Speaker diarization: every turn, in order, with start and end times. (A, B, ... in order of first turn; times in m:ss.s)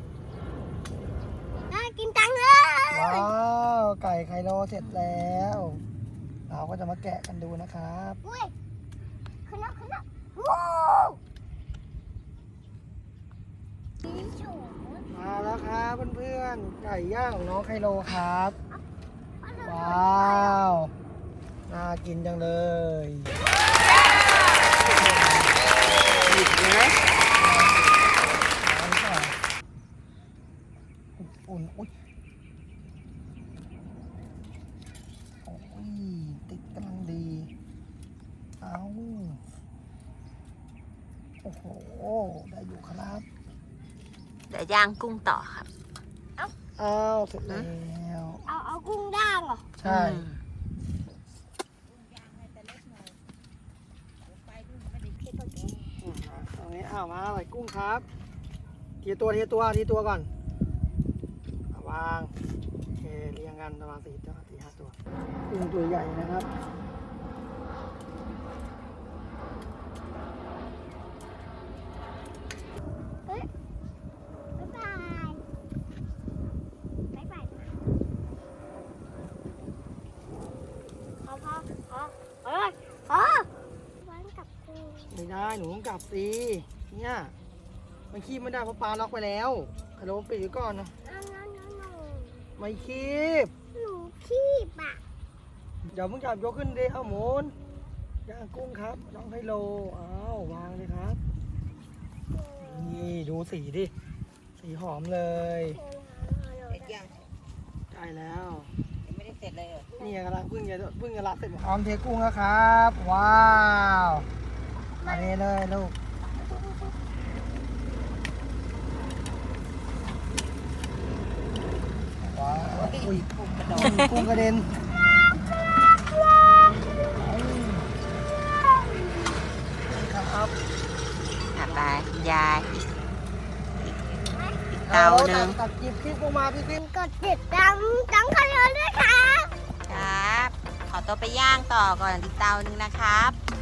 0:01.7-0:03.3 A
0:02.9-0:05.8 B
0:04.8-0:05.1 C
0:06.5-0:08.2 B
0:08.2-0:08.5 A
0:09.4-0:11.2 A
0:14.0-0:15.0 A
0:15.1-0:18.6 B
0:19.4-0:20.7 A
0:19.6-0:20.9 B
0:21.7-0:23.4 B
0:25.0-0:25.4 B
0:26.2-0:27.0 C
0:27.4-0:27.9 B
0:28.5-0:29.4 B
0:31.2-0:31.9 B
0:35.4-0:37.5 B
0:38.6-0:39.4 B
0:41.4-0:43.2 B
0:44.5-0:45.7 C
0:46.8-0:48.4 B
0:48.5-0:49.7 A
0:49.8-0:50.2 B
0:49.8-0:50.4 C
0:54.8-0:56.0 A
0:56.0-0:58.0 B
0:59.0-1:00.3 B
1:01.7-1:02.3 B
1:03.0-1:05.0 B
1:05.5-1:06.5 B
1:14.6-1:15.4 A
1:17.1-1:17.7 A
1:21.2-1:23.5 A
1:24.0-1:25.2 A
1:25.1-1:27.3 B
1:28.1-1:30.9 B
1:31.0-1:32.6 A
1:32.6-1:33.5 B
1:33.7-1:35.0 A
1:35.9-1:37.5 B
1:38.2-1:41.2 B
1:42.3-1:43.2 A
1:42.6-1:43.9 B
1:44.6-1:45.8 B
1:45.6-1:47.2 A
1:47.9-1:48.7 B
1:49.8-1:50.2 A
1:50.0-1:54.3 B
1:55.0-1:55.4 A
1:55.0-1:55.9 B
2:02.2-2:04.7 B
2:03.6-2:04.3 C
2:07.2-2:07.9 B
2:08.6-2:09.3 A
2:09.8-2:10.5 B
2:11.5-2:12.7 C
2:14.3-2:14.7 A
2:14.8-2:15.6 C
2:14.8-2:16.7 B
2:16.6-2:19.5 A
2:19.9-2:23.4 C